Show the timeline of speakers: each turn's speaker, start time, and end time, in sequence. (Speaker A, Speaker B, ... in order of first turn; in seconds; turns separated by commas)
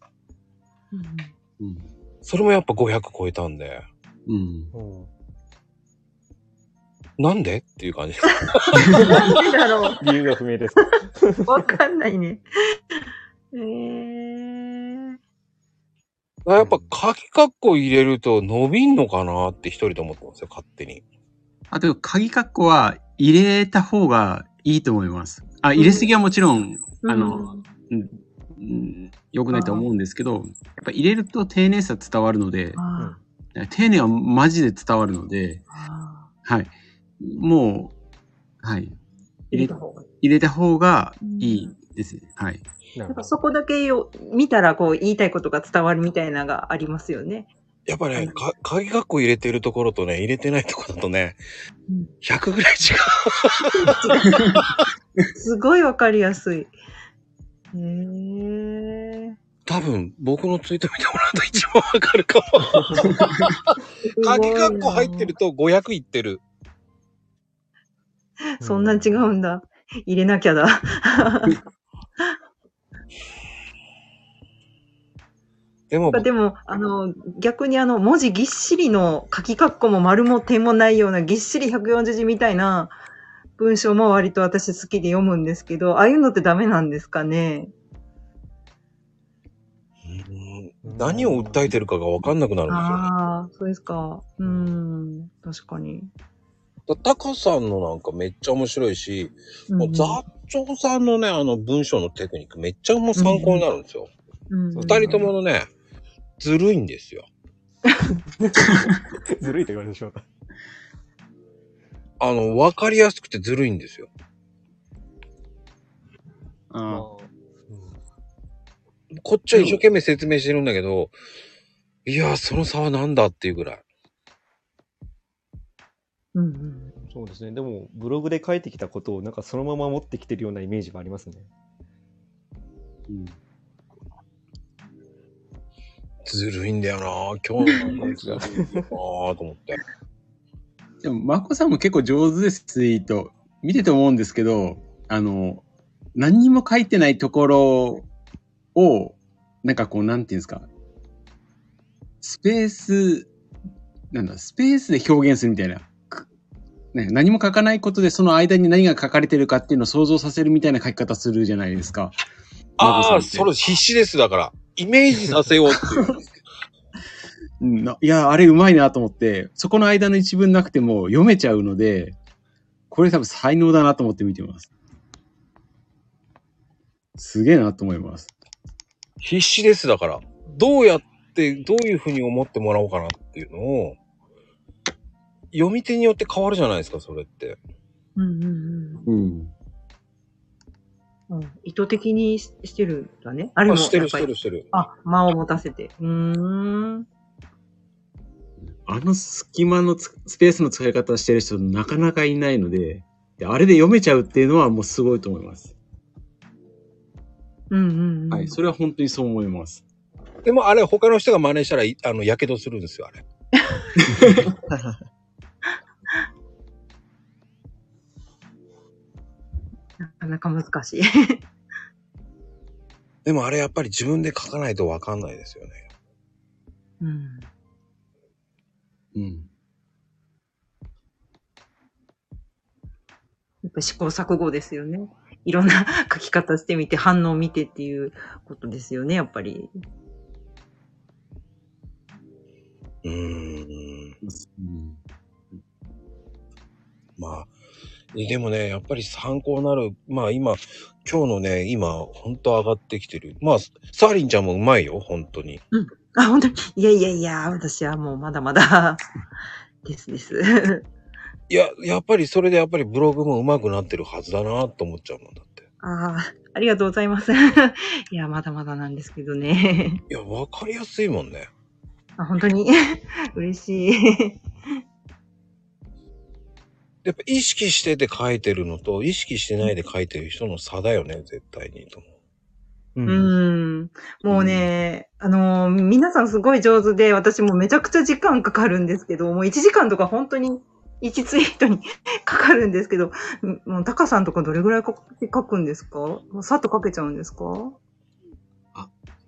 Speaker A: 0.9-1.3, Speaker B: 1.6-1.9, Speaker C: 2.2-3.9, Speaker B: 4.3-4.7, Speaker D: 4.7-5.1, Speaker C: 7.2-9.3, Speaker B: 8.8-9.1, Speaker D: 9.0-9.3, Speaker A: 9.1-10.0, Speaker D: 9.9-11.7, Speaker A: 11.5-13.0, Speaker A: 13.5-15.2, Speaker C: 16.4-21.0, Speaker D: 16.6-16.9, Speaker B: 21.7-32.8, Speaker A: 25.8-26.1, Speaker A: 27.0-27.6, Speaker A: 29.5-29.8, Speaker A: 32.8-33.1, Speaker B: 33.5-35.6, Speaker A: 35.7-36.3, Speaker B: 36.4-37.9, Speaker B: 38.6-39.0, Speaker A: 39.5-40.0, Speaker B: 39.5-42.6, Speaker A: 41.2-41.7, Speaker D: 42.9-43.3, Speaker A: 43.1-47.5, Speaker C: 47.9-51.4, Speaker A: 51.9-52.1, Speaker C: 52.2-54.6, Speaker A: 53.7-54.4, Speaker A: 55.3-56.7, Speaker A: 57.7-59.4, Speaker C: 59.6-66.4, Speaker B: 63.1-63.4, Speaker A: 64.0-65.3, Speaker A: 68.6-71.6, Speaker D: 68.6-69.3, Speaker C: 75.9-76.3, Speaker A: 76.1-82.9, Speaker A: 83.6-87.7, Speaker C: 90.0-93.1, Speaker D: 90.8-91.7, Speaker A: 92.7-96.1, Speaker D: 94.4-94.8, Speaker C: 96.9-104.1, Speaker A: 99.7-100.2, Speaker A: 103.2-103.6, Speaker A: 104.5-105.3, Speaker D: 104.7-105.2, Speaker C: 104.8-105.7, Speaker C: 106.4-107.2, Speaker D: 108.4-110.2, Speaker C: 112.2-114.1, Speaker B: 116.7-117.1, Speaker D: 116.8-118.0, Speaker C: 119.1-121.1, Speaker C: 122.0-123.8, Speaker A: 126.3-126.9, Speaker D: 127.0-131.5, Speaker B: 133.1-133.3, Speaker C: 136.2-139.8, Speaker D: 137.9-138.9, Speaker B: 141.0-148.1, Speaker B: 148.7-150.7, Speaker B: 152.2-153.3, Speaker B: 154.1-156.2, Speaker B: 156.9-162.2, Speaker C: 162.8-166.2, Speaker B: 162.8-163.5, Speaker B: 165.3-166.2, Speaker B: 167.6-172.2, Speaker B: 172.9-174.7, Speaker B: 177.2-178.3, Speaker C: 179.2-184.0, Speaker C: 185.5-187.6, Speaker A: 188.2-189.1, Speaker B: 189.1-189.5, Speaker A: 191.3-197.1, Speaker C: 193.7-194.7, Speaker B: 198.7-205.7, Speaker A: 207.7-208.6, Speaker B: 208.3-209.8, Speaker C: 210.4-213.2, Speaker A: 213.6-213.9, Speaker B: 214.0-214.5, Speaker A: 220.0-221.4, Speaker C: 223.2-225.8, Speaker A: 227.0-227.5, Speaker B: 229.1-229.5, Speaker A: 233.6-239.7, Speaker C: 243.0-244.2, Speaker B: 244.2-245.0, Speaker C: 247.2-247.5, Speaker C: 248.1-255.6, Speaker A: 255.7-259.0, Speaker A: 259.8-260.8, Speaker C: 261.5-265.6, Speaker A: 265.8-270.0, Speaker C: 270.1-271.5, Speaker A: 272.2-274.4, Speaker C: 277.0-282.1, Speaker D: 282.9-283.3, Speaker A: 283.1-297.8